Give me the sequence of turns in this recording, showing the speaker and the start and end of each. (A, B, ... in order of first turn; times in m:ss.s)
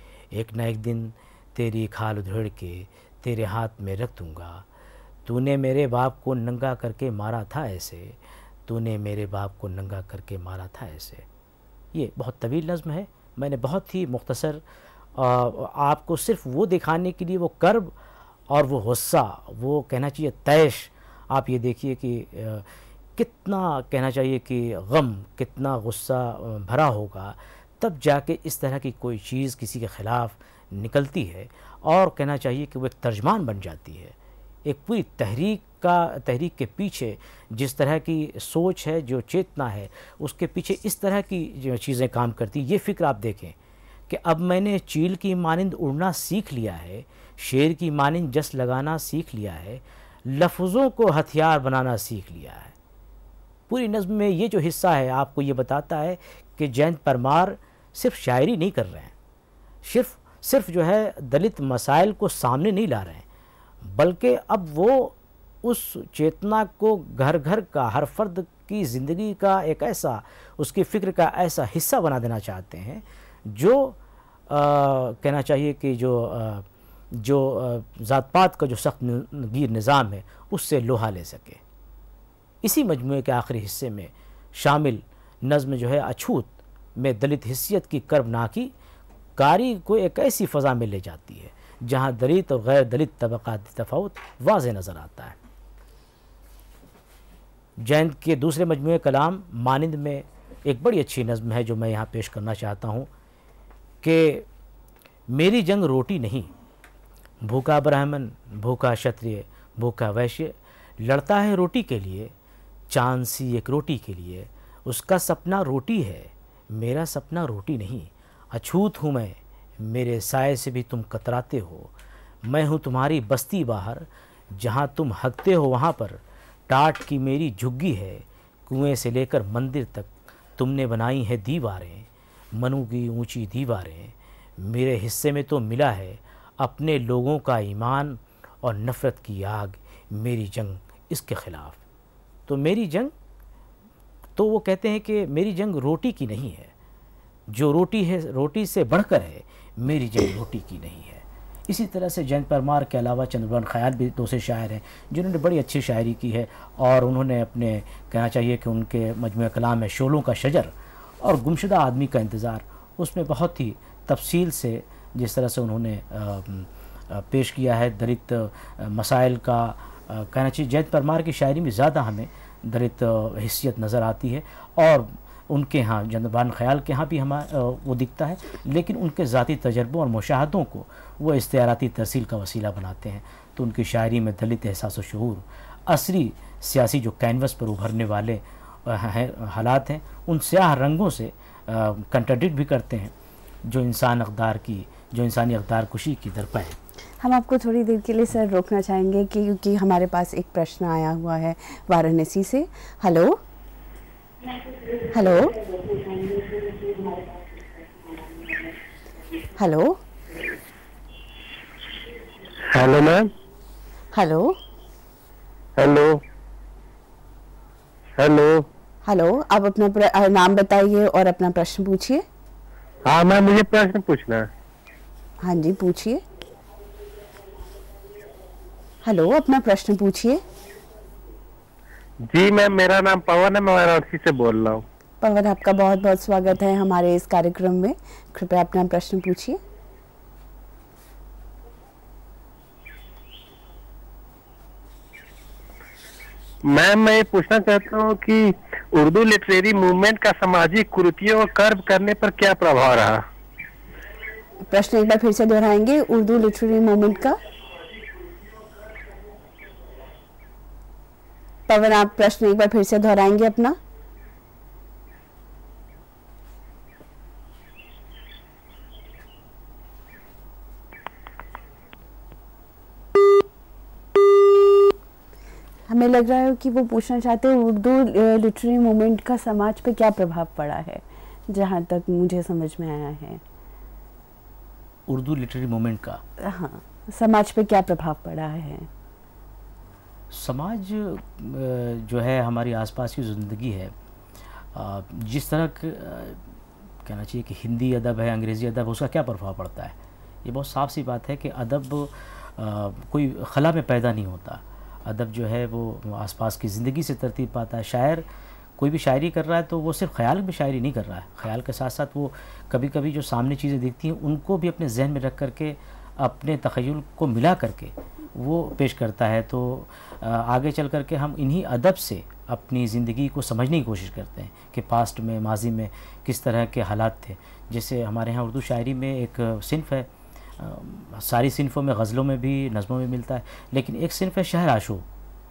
0:00.3-0:04.7 A
0:05.2-0:11.3 A
0:11.9-0:14.6 A
0:15.2-0:17.9 A
0:18.5-0:43.6 A
0:44.1-0:52.8 A
0:53.7-0:59.1 A
0:59.8-1:03.2 A
1:03.8-1:14.0 A
1:14.5-1:21.6 A
1:22.6-1:28.7 A
1:29.4-1:35.4 A
1:37.8-1:43.1 A
1:44.0-1:44.5 A
1:45.3-1:46.5 A
1:47.4-1:52.3 A
1:52.9-2:01.9 A
2:02.4-2:21.8 A
2:22.5-2:23.1 A
2:24.4-2:26.7 A
2:27.5-3:13.1 A
3:13.6-3:16.8 A
3:17.2-3:23.4 B
3:25.0-3:27.4 B
3:29.6-3:30.0 B
3:32.7-3:33.3 C
3:34.1-3:34.6 B
3:35.8-3:36.2 C
3:38.2-3:38.7 C
3:39.0-3:42.2 B
3:43.0-3:44.5 C
3:45.4-3:46.2 B
3:49.0-3:50.4 B
3:52.3-3:54.8 C
3:55.2-3:59.6 B
4:06.6-4:13.2 C
4:14.7-4:17.4 B
4:21.7-4:23.8 B
4:35.9-4:43.4 B
4:45.1-4:46.2 A
4:46.4-4:48.9 B
4:50.3-4:53.9 A
4:54.7-4:56.4 A
4:57.0-5:08.3 A
5:08.8-5:35.1 A